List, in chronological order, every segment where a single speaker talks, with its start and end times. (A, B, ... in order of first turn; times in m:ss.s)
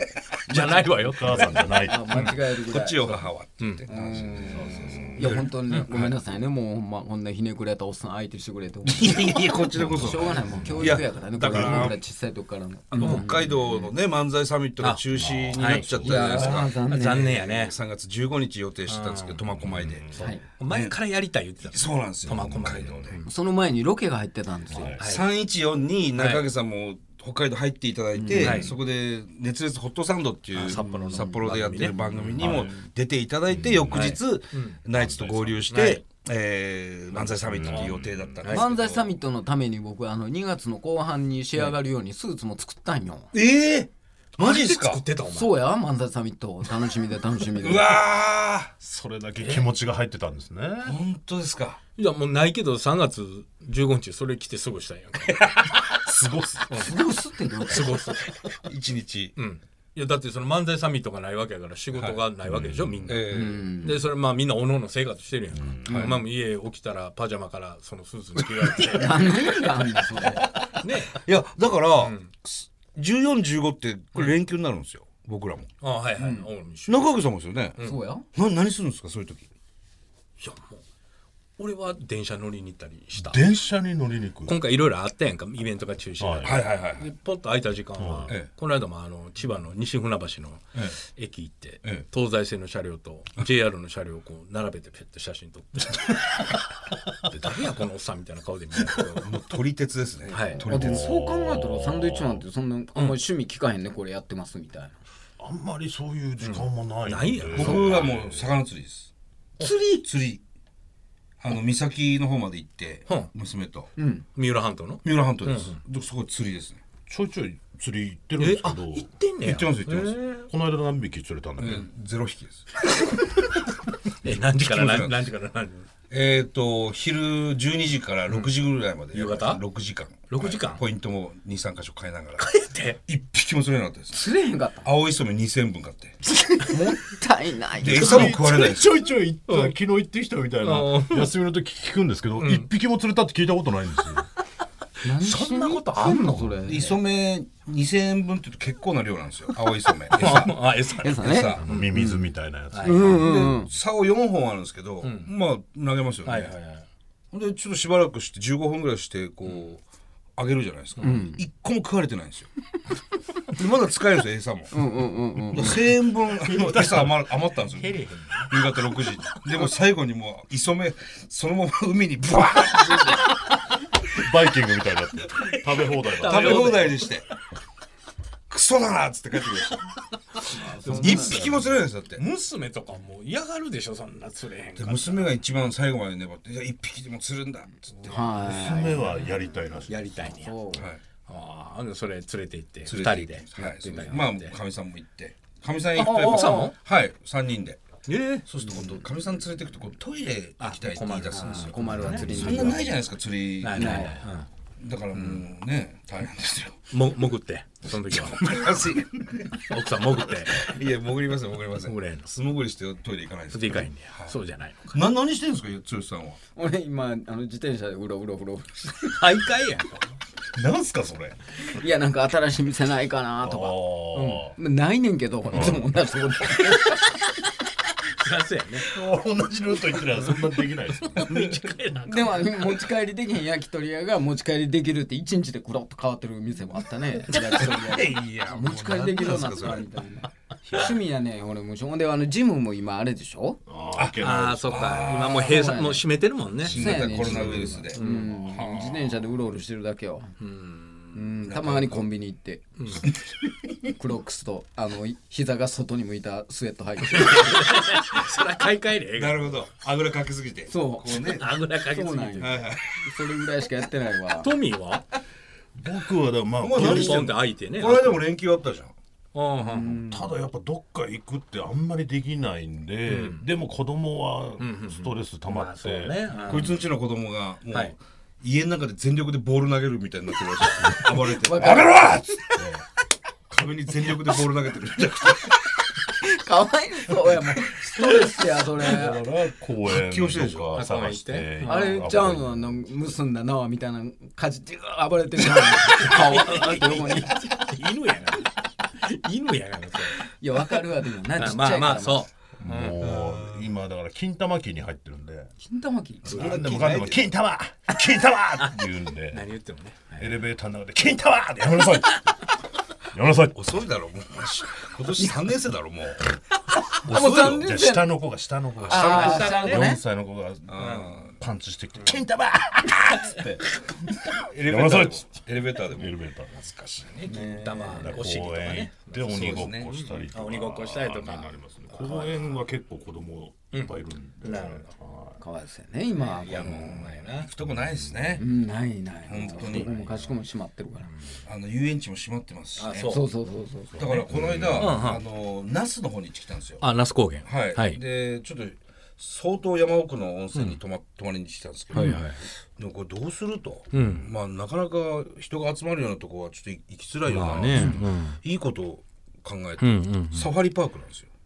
0:00.5-0:02.4 A
0:00.5-0:02.4 B
0:01.8-0:03.1 C
0:02.6-0:05.5 D
0:03.9-0:13.9 C
0:04.1-0:05.4 B
0:05.2-0:05.9 A
0:08.9-0:11.9 D
0:09.8-0:11.9 B
0:11.4-0:12.0 A
0:12.9-0:20.1 D
0:13.0-0:13.2 A
0:14.8-0:17.8 A
0:15.1-0:16.3 B
0:16.0-0:17.4 C
0:18.9-0:19.5 A
0:19.6-0:20.3 B
0:20.1-0:23.3 A
0:20.2-0:20.4 C
0:20.7-0:21.0 D
0:21.6-0:23.2 D
0:22.2-0:23.1 B
0:23.2-0:25.0 C
0:24.7-0:25.0 B
0:24.9-0:25.2 A
0:24.9-0:39.1 D
0:26.2-0:26.4 A
0:28.1-0:28.7 C
0:28.3-0:28.8 A
0:30.5-0:32.7 A
0:30.7-0:31.4 C
0:32.4-0:32.8 B
0:33.5-0:34.1 B
0:33.9-0:34.9 A
0:35.0-0:35.6 B
0:35.6-0:36.0 A
0:37.1-0:38.4 B
0:37.6-0:38.7 A
0:38.4-0:43.3 C
0:43.3-0:45.0 D
0:44.4-0:45.6 A
0:45.3-0:47.9 C
0:47.6-0:48.7 D
0:48.8-0:51.0 B
0:49.4-0:49.7 D
0:50.8-0:51.8 D
0:52.0-0:56.0 A
0:56.0-0:56.7 B
0:56.7-0:58.1 C
0:57.7-0:58.6 A
0:58.6-0:59.4 D
0:59.4-1:09.5 A
1:01.9-1:02.2 D
1:02.4-1:03.0 B
1:03.0-1:03.6 D
1:03.3-1:04.0 C
1:05.6-1:05.9 B
1:05.9-1:06.1 C
1:05.9-1:06.2 D
1:08.8-1:10.5 C
1:10.6-1:15.7 D
1:10.8-1:11.2 A
1:12.0-1:12.3 A
1:15.8-1:17.0 A
1:16.2-1:16.5 C
1:16.9-1:17.8 D
1:17.8-1:18.3 C
1:18.3-1:19.5 D
1:20.4-1:20.8 A
1:21.6-1:23.4 A
1:23.1-1:24.6 B
1:24.4-1:36.6 A
1:26.2-1:26.6 B
1:26.4-1:27.1 D
1:28.0-1:28.4 B
1:37.2-1:39.4 A
1:39.2-1:41.1 D
1:40.3-1:45.0 C
1:40.3-1:40.7 A
1:40.7-1:42.4 B
1:45.4-1:48.5 B
1:46.4-1:47.9 A
1:47.5-1:49.1 D
1:49.6-1:50.1 C
1:50.0-1:50.4 D
1:51.4-1:53.9 D
1:54.0-1:54.2 C
1:54.4-1:55.8 A
1:55.0-1:56.8 D
1:57.1-1:59.1 B
1:58.4-2:00.5 A
1:59.4-2:00.2 D
2:00.5-2:01.9 B
2:01.6-2:02.7 D
2:03.0-2:03.5 A
2:04.1-2:05.9 A
2:04.6-2:05.3 D
2:06.1-2:12.5 D
2:09.1-2:09.6 A
2:10.2-2:10.8 A
2:12.4-2:13.0 A
2:13.1-2:14.2 D
2:14.1-2:14.9 C
2:14.8-2:16.2 D
2:16.4-2:18.3 C
2:17.8-2:19.0 D
2:17.8-2:24.3 B
2:19.5-2:19.7 A
2:20.6-2:21.4 A
2:22.4-2:22.7 A
2:25.0-2:27.0 C
2:25.1-2:26.6 A
2:26.6-2:31.6 D
2:30.1-2:31.9 A
2:30.9-2:32.2 C
2:31.6-2:33.5 B
2:32.7-2:33.2 A
2:32.8-2:33.7 C
2:33.1-2:36.5 D
2:35.0-2:35.3 A
2:36.2-2:36.9 A
2:37.3-2:39.8 D
2:40.4-2:42.5 D
2:41.0-2:41.2 A
2:41.0-2:41.4 C
2:43.5-2:44.7 D
2:44.7-2:45.9 C
2:45.5-2:53.3 D
2:46.4-2:47.2 B
2:47.6-2:48.6 A
2:54.1-2:56.7 B
2:55.2-2:57.2 A
2:56.2-2:57.3 D
2:58.5-2:59.9 D
3:00.4-3:01.4 C
3:00.8-3:05.4 A
3:00.9-3:02.2 D
3:01.2-3:01.7 B
3:04.8-3:08.3 D
3:08.0-3:09.2 C
3:08.4-3:10.1 B
3:08.9-3:09.2 A
3:09.9-3:10.6 A
3:10.2-3:10.8 C
3:10.7-3:11.0 D
3:11.2-3:14.6 A
3:12.9-3:17.8 D
3:16.0-3:16.7 C
3:16.0-3:16.8 A
3:18.1-3:18.5 A
3:18.5-3:24.1 D
3:18.6-3:19.0 C
3:20.6-3:22.7 A
3:21.3-3:23.0 C
3:21.9-3:22.8 B
3:23.6-3:24.5 A
3:23.7-3:24.2 C
3:24.8-3:26.8 D
3:25.1-3:25.5 A
3:26.9-3:29.0 A
3:27.9-3:29.7 D
3:29.6-3:30.8 A
3:30.5-3:34.4 D
3:31.8-3:32.3 A
3:33.5-3:35.0 A
3:34.9-3:36.4 D
3:36.5-3:39.2 C
3:39.2-3:40.2 A
3:40.6-3:41.4 B
3:41.6-3:47.4 C
3:43.4-3:44.6 B
3:45.5-3:45.9 B
3:48.1-3:48.9 A
3:48.9-3:51.4 B
3:50.1-3:52.8 A
3:52.0-4:03.6 C
3:57.3-3:59.8 D
4:03.7-4:04.8 B
4:04.0-4:05.6 D
4:04.2-4:08.5 A
4:05.2-4:10.4 C
4:06.6-4:09.0 D
4:10.4-4:11.3 A
4:11.1-4:13.0 C
4:11.4-4:12.0 D
4:12.8-4:13.0 A
4:13.9-4:17.7 C
4:17.1-4:19.6 A
4:19.1-4:21.5 D
4:20.7-4:24.5 C
4:21.1-4:22.8 A
4:22.4-4:23.0 D
4:24.4-4:25.0 A
4:25.8-4:27.3 B
4:26.6-4:28.9 D
4:26.7-4:28.2 A
4:29.3-4:30.0 A
4:29.6-4:30.3 C
4:30.0-4:36.5 B
4:33.1-4:33.4 A
4:34.6-4:36.8 A
4:36.5-4:42.6 D
4:37.7-4:38.0 A
4:41.0-4:42.3 C
4:42.6-4:42.8 B
4:43.5-4:45.8 D
4:46.0-4:49.3 C
4:48.6-4:52.8 B
4:49.8-4:50.8 D
4:50.8-4:52.2 A
4:51.6-4:57.4 C
4:55.6-5:03.7 A
5:00.2-5:02.3 C
5:02.6-5:05.5 B
5:05.6-5:06.5 C
5:06.2-5:09.5 B
5:06.3-5:07.3 D
5:06.3-5:06.6 A
5:09.3-5:10.3 A
5:10.2-5:12.3 B
5:11.8-5:12.2 A
5:13.1-5:13.6 B
5:13.5-5:16.4 D
5:16.8-5:18.2 C
5:17.0-5:17.7 D
5:17.5-5:25.3 B
5:18.8-5:19.5 D
5:18.8-5:19.9 A
5:18.9-5:20.0 C
5:20.7-5:21.3 D
5:20.8-5:21.2 A
5:23.3-5:23.6 D
5:24.2-5:27.2 D
5:25.9-5:26.9 B
5:27.1-5:32.6 A
5:27.2-5:28.2 C
5:28.0-5:35.4 B
5:29.3-5:30.0 D
5:33.7-5:34.9 A
5:35.4-5:37.1 C
5:36.1-5:37.5 A
5:36.6-5:38.4 D
5:38.4-5:41.1 C
5:39.2-5:39.9 D
5:39.7-5:40.3 A
5:41.0-5:41.4 A
5:41.4-5:43.1 D
5:42.8-5:43.3 A
5:43.0-5:44.1 C
5:43.9-5:45.0 B
5:44.0-5:46.8 D
5:44.8-5:45.2 A
5:46.8-5:48.0 A
5:47.4-6:01.3 D
5:50.5-5:50.8 A
5:51.9-5:52.4 A
5:53.9-5:54.3 A
5:57.2-5:58.4 A
5:59.8-6:00.5 A